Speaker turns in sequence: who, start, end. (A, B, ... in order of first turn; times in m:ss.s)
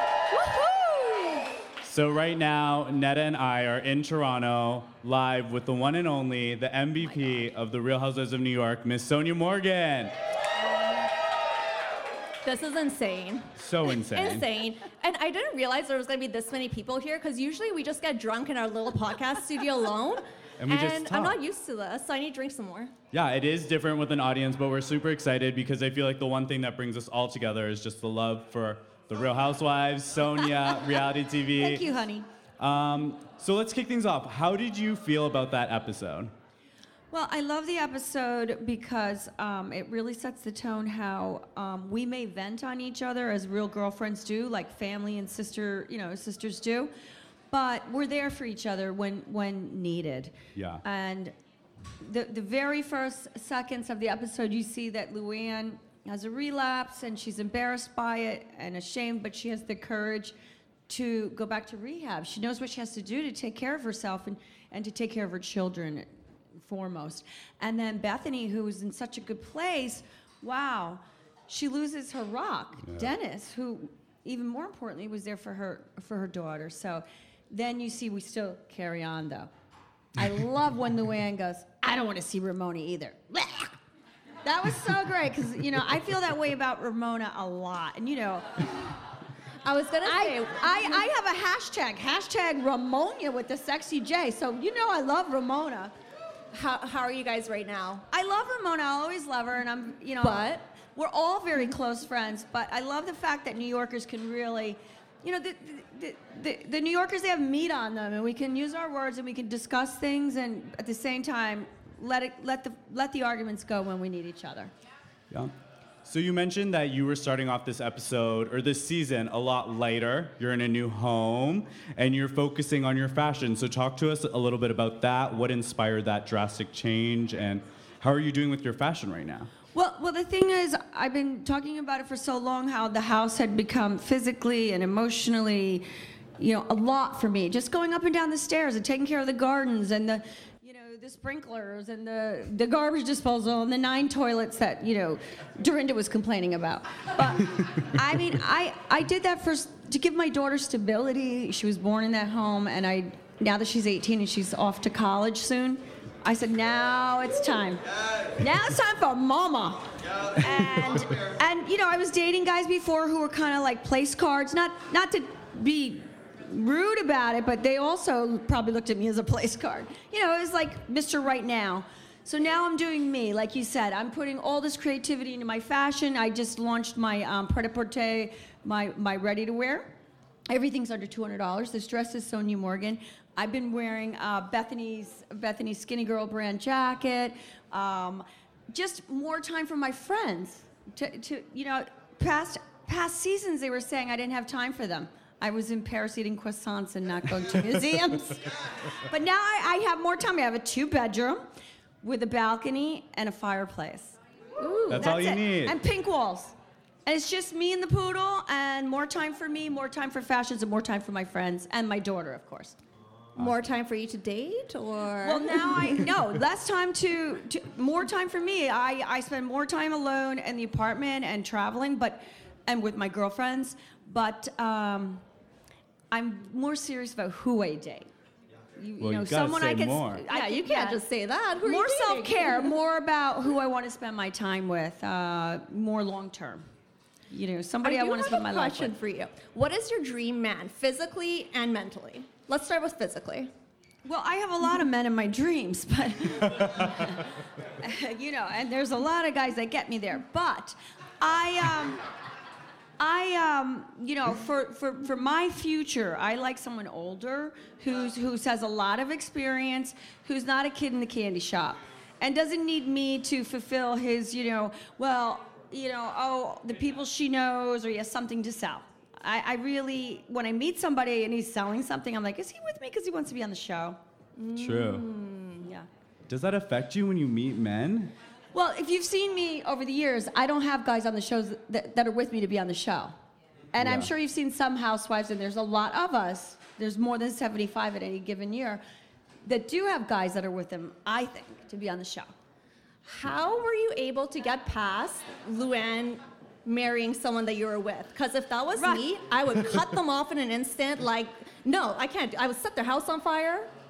0:00.3-0:01.5 A
0:01.8-0:10.1 B
0:12.4-0:22.9 A
0:13.6-0:14.5 B
0:20.6-0:21.4 B
0:23.1-0:31.9 B
0:31.6-0:32.3 C
0:32.6-0:36.3 B
0:37.1-0:46.9 C
0:47.5-0:51.3 C
0:50.6-0:50.8 B
0:52.0-1:00.3 C
1:00.9-1:19.5 C
1:20.2-1:23.8 C
1:24.4-1:28.8 C
1:29.6-1:31.1 A
1:30.0-1:35.9 C
1:36.5-1:38.0 A
1:38.1-1:54.7 C
1:40.2-1:40.6 A
1:56.1-2:09.5 B
2:09.8-2:15.9 C
2:16.4-2:37.8 C
2:38.4-3:00.0 C
3:00.5-3:21.5 C
3:22.0-3:24.2 C
3:24.6-3:25.1 A
3:24.9-3:26.6 C
3:24.9-3:25.8 B
3:27.1-3:32.8 C
3:33.4-3:36.0 A
3:35.2-3:45.2 C
3:46.1-3:48.1 C
3:48.8-3:51.0 C
3:49.0-3:50.2 B
3:50.3-3:52.7 A
3:51.6-3:56.6 C
3:57.3-3:59.0 C
3:57.8-4:03.5 A
4:04.0-4:12.0 C
4:13.0-4:34.0 C
4:34.4-4:35.7 A
4:34.6-4:35.1 B
4:36.3-4:38.1 B
4:38.5-4:43.1 C
4:43.7-4:48.8 C
4:43.8-4:44.1 B
4:49.4-4:52.3 C
4:53.0-5:03.7 A
4:58.8-4:59.1 C